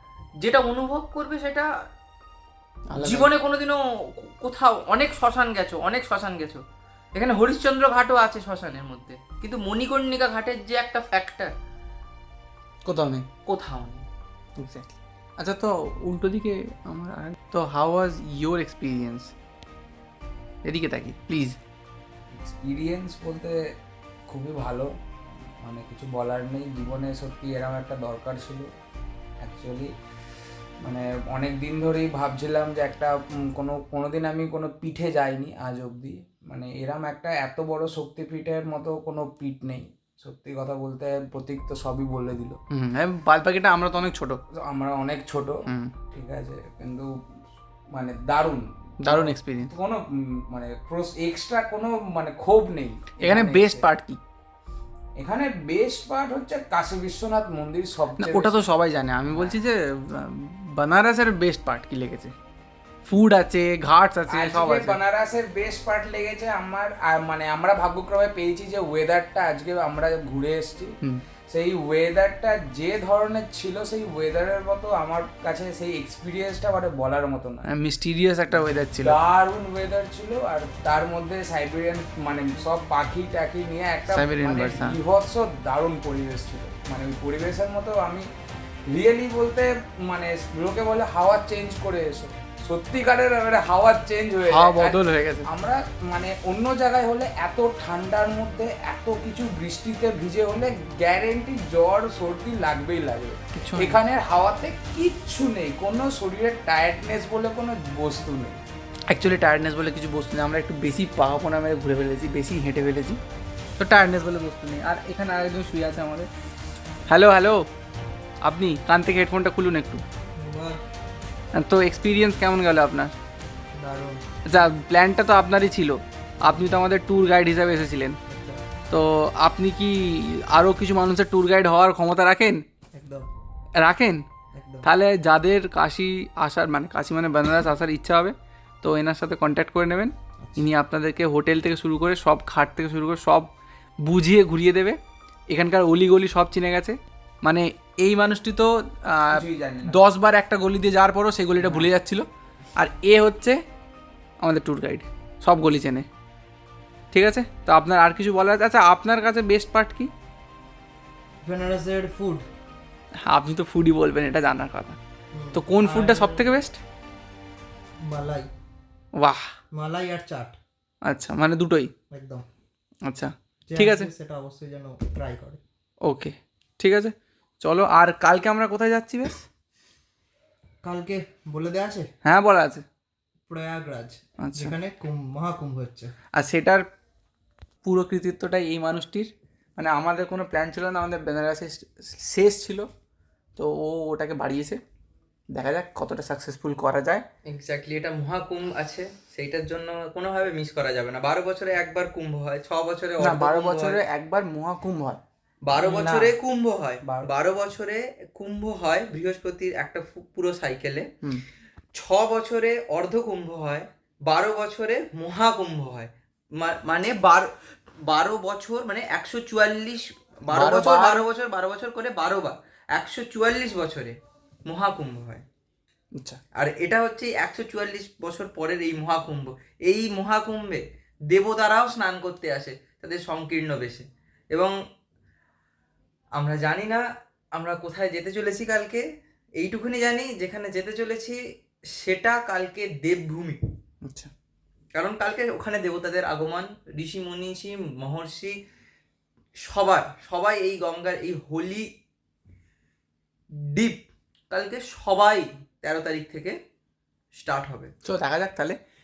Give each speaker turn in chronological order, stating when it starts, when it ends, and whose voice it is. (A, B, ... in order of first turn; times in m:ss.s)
0:00.4-0:01.7 A
0:02.9-0:03.3 B
0:03.0-0:06.6 A
0:07.1-0:11.5 A
0:12.8-0:13.3 B
0:13.5-0:14.0 A
0:14.6-0:19.3 B
0:20.6-0:21.6 B
0:22.3-0:23.6 C
0:24.3-0:24.9 C
0:25.6-0:28.7 C
0:29.4-0:29.9 C
0:30.8-0:42.6 C
0:42.7-0:44.4 B
0:44.5-0:45.6 C
0:45.7-0:45.9 B
0:46.1-0:53.8 C
0:49.0-0:49.7 B
0:53.2-0:54.2 B
0:55.2-0:58.5 C
0:58.2-1:02.3 B
1:03.0-1:05.0 B
1:04.3-1:11.0 C
1:11.5-1:17.7 C
1:17.7-1:19.2 B
1:18.9-1:28.2 C
1:24.1-1:25.0 B
1:28.9-1:48.6 C
1:34.5-1:35.5 B
1:43.5-1:44.0 B
1:49.1-1:53.2 B
1:53.8-1:56.3 B
1:57.1-1:57.6 B
1:58.4-2:00.0 B
2:00.4-2:00.8 D
2:01.5-2:03.1 B
2:03.7-2:04.2 D
2:04.4-2:08.2 B
2:08.3-2:08.6 D
2:08.9-2:12.6 B
2:12.9-2:13.3 D
2:13.8-2:14.2 B
2:14.5-2:14.9 D
2:14.8-2:23.5 B
2:20.4-2:20.7 D
2:24.0-2:25.0 B
2:25.5-2:33.6 B
2:29.4-2:30.0 C
2:34.4-2:36.1 B
2:37.1-2:40.1 B
2:41.4-2:42.4 D
2:43.2-2:45.0 B
2:45.3-2:46.5 D
2:45.5-2:46.8 B
2:48.0-2:48.5 D
2:49.2-2:49.4 B
2:49.7-2:50.6 D
2:51.0-2:51.9 B
2:52.1-2:52.4 D
2:53.0-2:54.1 B
2:53.7-2:55.6 D
2:56.0-2:59.4 B
3:00.8-3:02.1 D
3:02.2-3:02.8 B
3:03.5-3:06.1 D
3:04.4-3:04.8 B
3:06.3-3:06.8 B
3:07.8-3:12.9 B
3:13.6-3:14.8 B
3:15.5-3:17.2 B
3:17.5-3:24.0 A
3:23.2-3:25.2 B
3:25.7-3:31.1 A
3:25.7-3:26.3 C
3:31.9-3:37.5 A
3:38.0-3:45.4 A
3:40.5-3:41.2 B
3:46.6-3:54.7 A
3:56.4-3:57.0 A
3:57.5-3:59.0 A
3:59.6-4:01.4 A
4:02.0-4:03.6 A
4:04.0-4:04.3 B
4:04.9-4:08.6 A
4:09.6-4:11.9 A
4:13.6-4:16.6 A
4:17.3-4:17.9 A
4:18.0-4:18.8 B